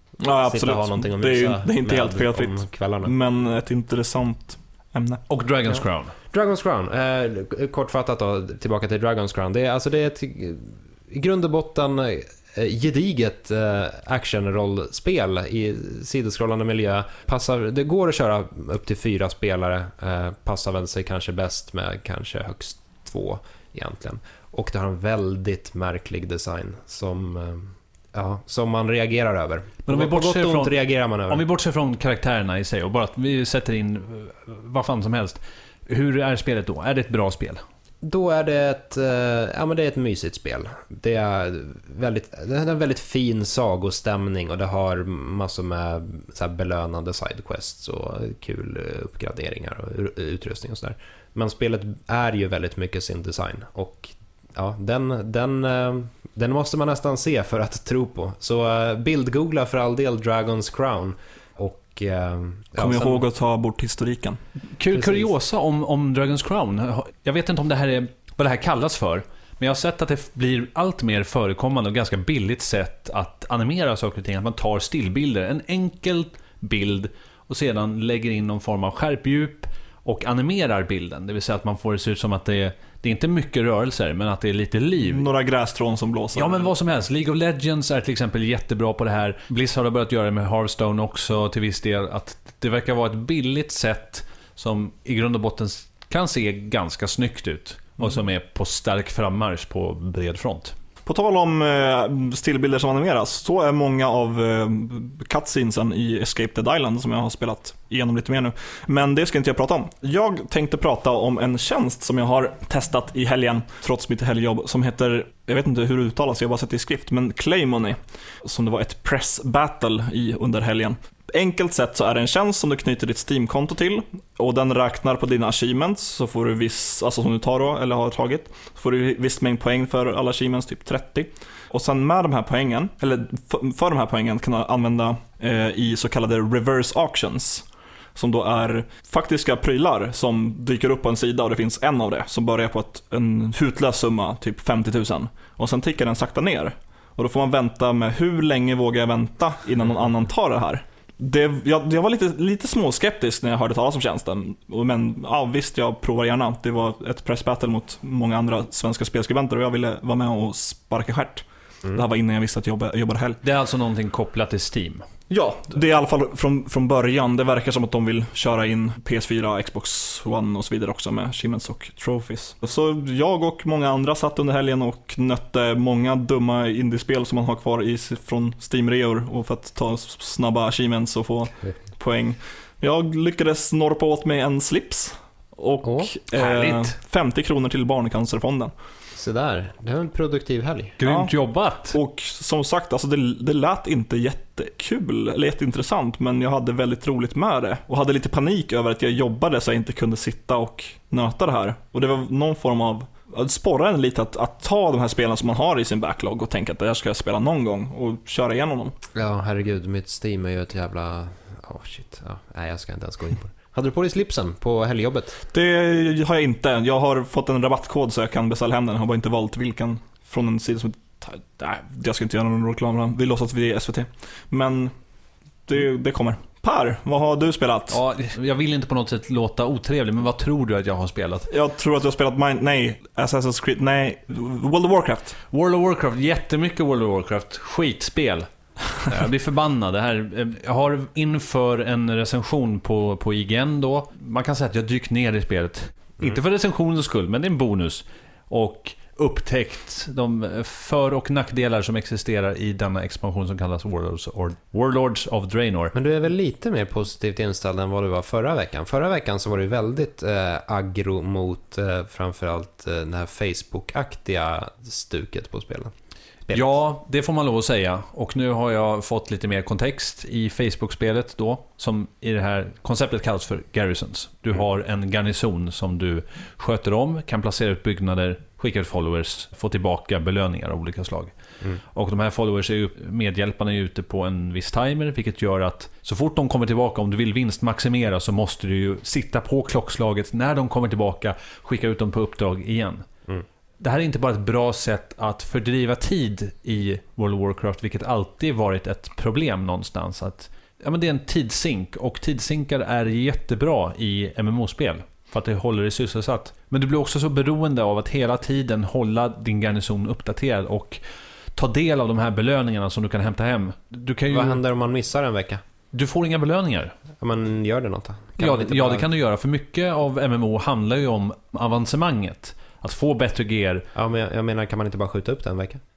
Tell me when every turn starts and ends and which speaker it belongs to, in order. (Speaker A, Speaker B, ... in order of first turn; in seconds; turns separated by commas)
Speaker A: 0.2-5.2, Speaker B: 0.4-3.1, Speaker C: 5.3-6.1, Speaker B: 5.7-31.4, Speaker C: 29.9-37.6, Speaker B: 38.0-63.2, Speaker A: 62.8-64.4, Speaker C: 64.8-85.2, Speaker B: 64.9-65.3, Speaker A: 85.0-86.7, Speaker C: 86.3-100.7, Speaker A: 101.0-163.4, Speaker C: 163.4-165.0, Speaker A: 165.3-188.7, Speaker B: 185.8-186.1, Speaker C: 186.3-186.9, Speaker B: 189.2-191.0, Speaker C: 191.0-191.9, Speaker A: 191.0-191.3, Speaker A: 191.9-208.9, Speaker B: 209.1-215.4, Speaker A: 215.5-224.9, Speaker A: 225.7-228.0, Speaker C: 227.9-231.5, Speaker A: 231.5-235.4, Speaker C: 235.5-255.9, Speaker B: 255.9-265.9, Speaker B: 266.4-266.7, Speaker C: 266.5-293.1, Speaker C: 293.8-311.0, Speaker C: 311.6-314.6, Speaker B: 314.3-315.6, Speaker C: 315.9-316.9, Speaker B: 317.2-319.1, Speaker C: 318.4-323.9, Speaker B: 323.9-325.8